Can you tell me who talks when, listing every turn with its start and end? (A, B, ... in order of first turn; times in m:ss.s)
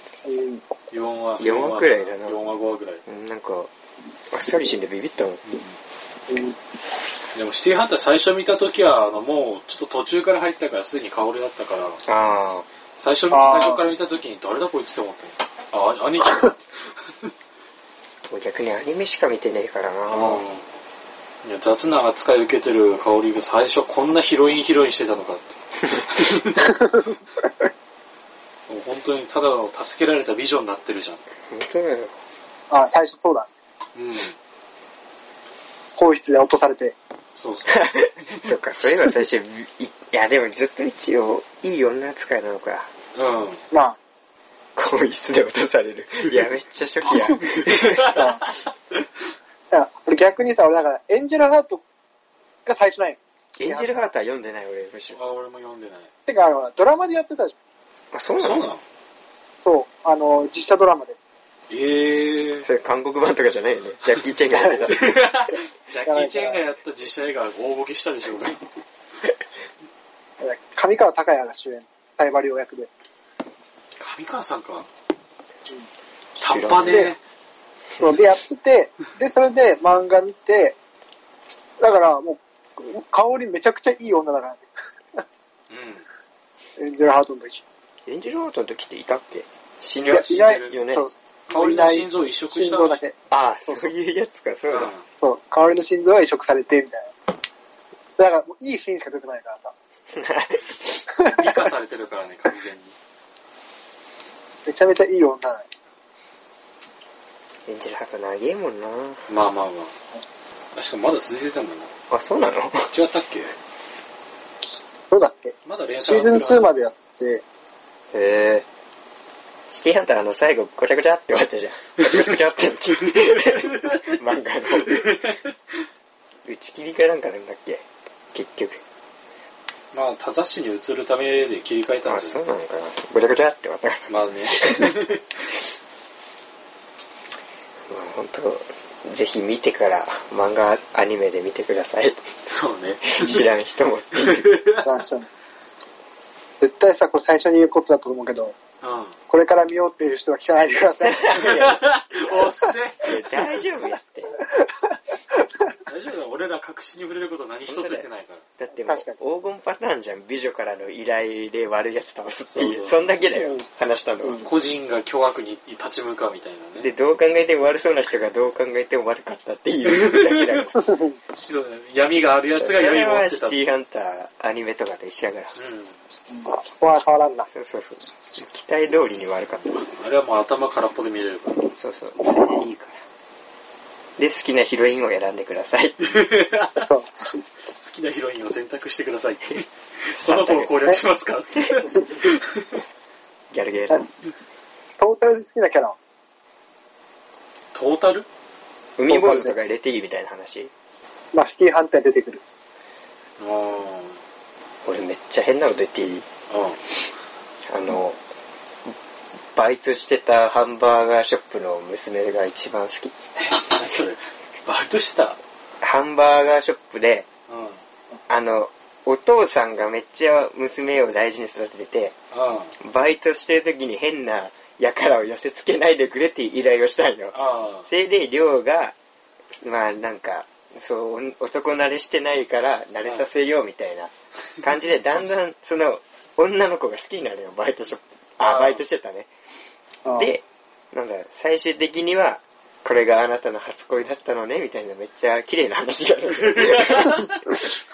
0:00.2-0:00.6 A
0:00.9-0:03.0 B
0:01.4-0:02.4 C
0:03.0-0:03.7 C
0:04.3-0:05.4 C
0:05.4-0:05.8 B
0:06.3-0:06.6 A
0:07.3-0:12.0 B
0:12.0-0:12.7 C
0:13.0-0:16.8 B
0:13.3-0:13.8 A
0:18.3-0:20.4 C
0:20.1-0:20.6 B
0:21.4-0:26.7 B
0:28.7-0:31.2 B
0:31.5-0:32.2 C
0:32.7-0:33.5 A
0:33.9-0:34.4 B
0:36.0-0:36.9 A
0:37.4-0:37.8 B
0:37.7-0:42.9 C
0:43.1-0:43.6 B
0:43.7-0:44.0 A
0:44.8-0:48.2 C
0:47.7-0:48.5 B
0:48.1-0:48.4 A
0:49.7-0:51.8 A
0:52.6-0:54.0 A
0:53.6-0:55.2 C
0:55.1-0:56.1 B
0:56.2-0:57.5 A
0:58.1-0:58.7 C
0:58.4-0:58.8 B
0:59.6-1:01.2 A
1:01.7-1:02.7 B
1:02.6-1:05.1 C
1:04.9-1:08.6 B
1:06.0-1:06.6 A
1:10.4-1:12.9 A
1:14.0-1:14.9 B
1:16.4-1:17.1 C
1:16.4-1:17.2 B
1:16.8-1:17.1 A
1:18.0-1:20.8 A
1:21.8-1:25.2 A
1:25.7-1:26.1 B
1:26.8-1:27.6 A
1:28.0-1:31.0 C
1:30.0-1:30.8 B
1:30.1-1:33.2 A
1:31.5-1:33.0 B
1:33.3-1:34.9 C
1:33.7-1:33.9 A
1:34.7-1:35.0 B
1:35.2-1:37.1 A
1:38.2-1:39.7 A
1:40.1-1:41.0 C
1:41.2-1:41.5 A
1:41.3-1:42.9 B
1:44.6-1:45.7 A
1:47.6-1:49.3 C
1:49.3-1:49.9 B
1:50.7-1:51.9 B
1:52.1-1:52.9 C
1:52.9-1:53.5 B
1:55.1-1:55.5 A
1:55.6-1:56.8 B
1:56.0-1:57.4 A
1:58.1-1:58.6 C
1:59.7-2:05.1 C
2:04.9-2:05.3 B
2:06.4-2:08.8 C
2:09.9-2:12.4 B
2:12.0-2:15.0 C
2:14.1-2:15.4 B
2:17.9-2:22.2 C
2:22.4-2:23.4 B
2:23.1-2:24.5 C
2:24.2-2:24.9 B
2:24.8-2:25.3 A
2:26.6-2:28.6 A
2:28.8-2:29.2 B
2:29.3-2:31.4 A
2:31.0-2:31.8 C
2:31.3-2:33.2 B
2:33.0-2:34.4 C
2:35.9-2:38.4 B
2:37.7-2:38.0 C
2:38.6-2:44.4 C
2:38.7-2:39.2 A
2:42.5-2:43.0 B
2:44.4-2:46.9 B
2:46.8-2:50.8 C
2:49.9-2:50.7 B
2:50.8-2:51.1 A
2:51.4-2:53.6 B
2:52.5-2:55.5 C
2:55.6-2:56.0 B
2:56.3-2:57.5 A
2:57.5-2:59.9 C
2:59.9-3:01.7 B
3:01.7-3:03.0 C
3:04.2-3:06.0 C
3:06.0-3:06.9 B
3:06.8-3:07.1 A
3:07.8-3:12.6 B
3:10.1-3:10.7 C
3:13.5-3:14.0 C
3:15.0-3:16.0 A
3:17.7-3:18.3 B
3:19.0-3:20.7 C
3:19.1-3:19.6 A
3:21.3-3:22.4 A
3:23.4-3:24.2 B
3:24.8-3:26.2 C
3:26.5-3:26.8 B
3:27.7-3:28.2 C
3:29.5-3:33.1 C
3:33.4-3:35.4 B
3:35.8-3:37.2 C
3:37.5-3:37.8 B
3:38.3-3:42.1 C
3:42.3-3:42.8 B
3:42.8-3:48.9 C
3:47.3-3:47.9 B
3:49.5-3:59.3 C
3:58.4-3:58.8 B
4:00.0-4:07.4 C